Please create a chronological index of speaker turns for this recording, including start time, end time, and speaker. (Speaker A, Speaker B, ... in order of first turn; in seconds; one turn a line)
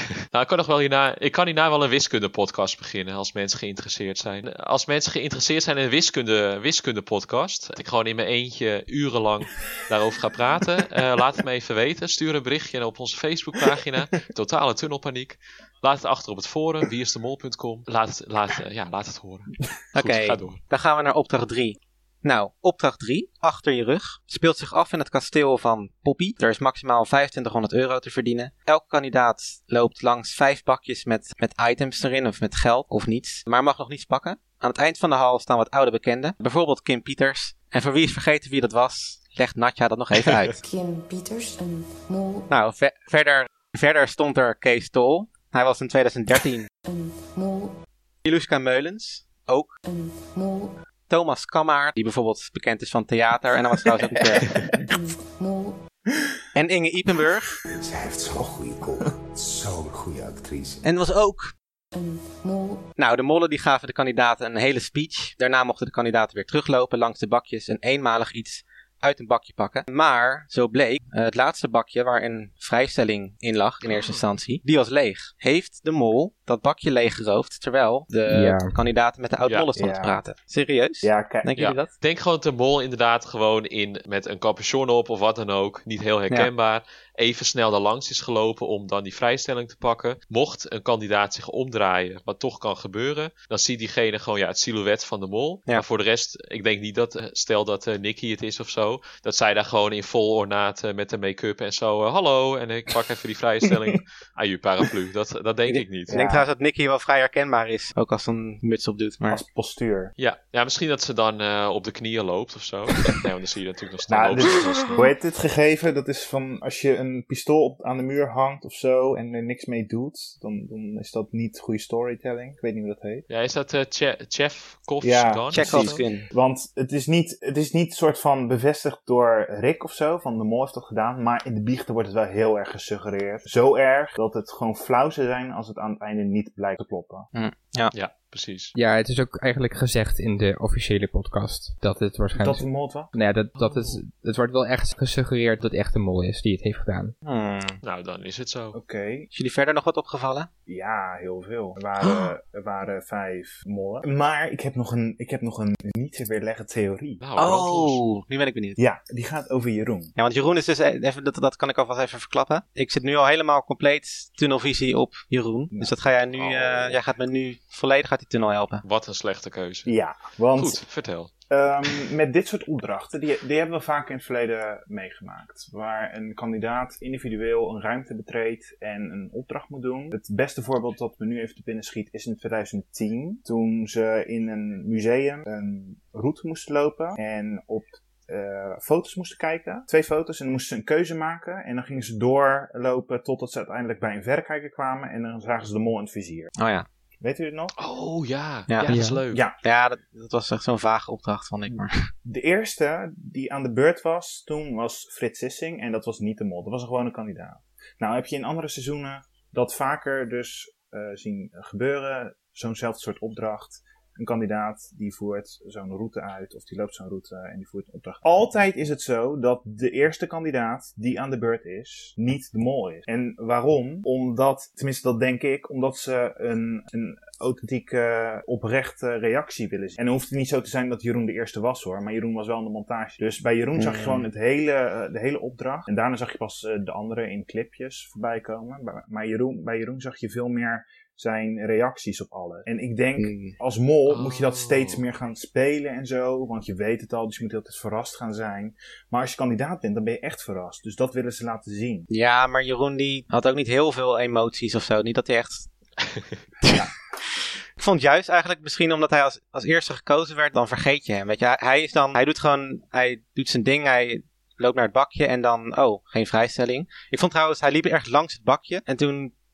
Speaker A: 0.3-20.6
Speaker B: 19.9-40.6
Speaker A: 40.2-40.5
Speaker C: 40.6-42.5
Speaker B: 42.5-46.7
Speaker C: 46.9-47.8
Speaker B: 48.2-49.7
Speaker C: 49.8-50.8
Speaker B: 51.1-54.5
Speaker C: 54.8-55.8
Speaker B: 56.5-57.5
Speaker D: 57.7-60.9
Speaker B: 60.8-61.5
Speaker C: 61.9-62.9
Speaker B: 63.0-81.9
Speaker A: 73.9-74.2
Speaker E: 78.3-78.7
Speaker F: 79.8-80.2
Speaker F: 81.0-81.5
Speaker A: 81.6-106.2
Speaker B: 105.7-109.4
Speaker F: 106.1-106.5
Speaker F: 109.3-110.1
Speaker A: 110.2-115.0
Speaker F: 114.1-123.3
Speaker A: 123.3-126.0
Speaker F: 125.0-137.3
Speaker B: 125.5-126.3
Speaker B: 137.3-137.9
Speaker A: 137.9-138.7
Speaker E: 138.8-147.1
Speaker F: 142.3-143.1
Speaker A: 143.6-144.0
Speaker B: 147.2-147.8
Speaker A: 147.8-148.8
Speaker F: 148.7-149.3
Speaker B: 149.3-150.5
Speaker F: 150.7-157.2
Speaker A: 157.2-158.0
Speaker B: 157.4-158.8
Speaker F: 158.8-160.2
Speaker B: 160.2-168.8
Speaker A: 166.4-167.0
Speaker A: 168.8-169.9
Speaker F: 169.9-170.8
Speaker A: 170.6-171.3
Speaker F: 171.5-196.5
Speaker B: 196.6-196.9
Speaker F: 197.2-197.8
Speaker A: 197.8-199.4
Speaker B: 198.7-199.0
Speaker E: 198.9-199.2
Speaker F: 199.3-199.6
Speaker B: 199.6-202.1
Speaker F: 202.2-252.1
Speaker B: 233.8-234.2
Speaker B: 243.2-243.6
Speaker A: 244.1-245.0
Speaker B: 252.1-255.7
Speaker F: 256.7-256.9
Speaker B: 257.8-269.3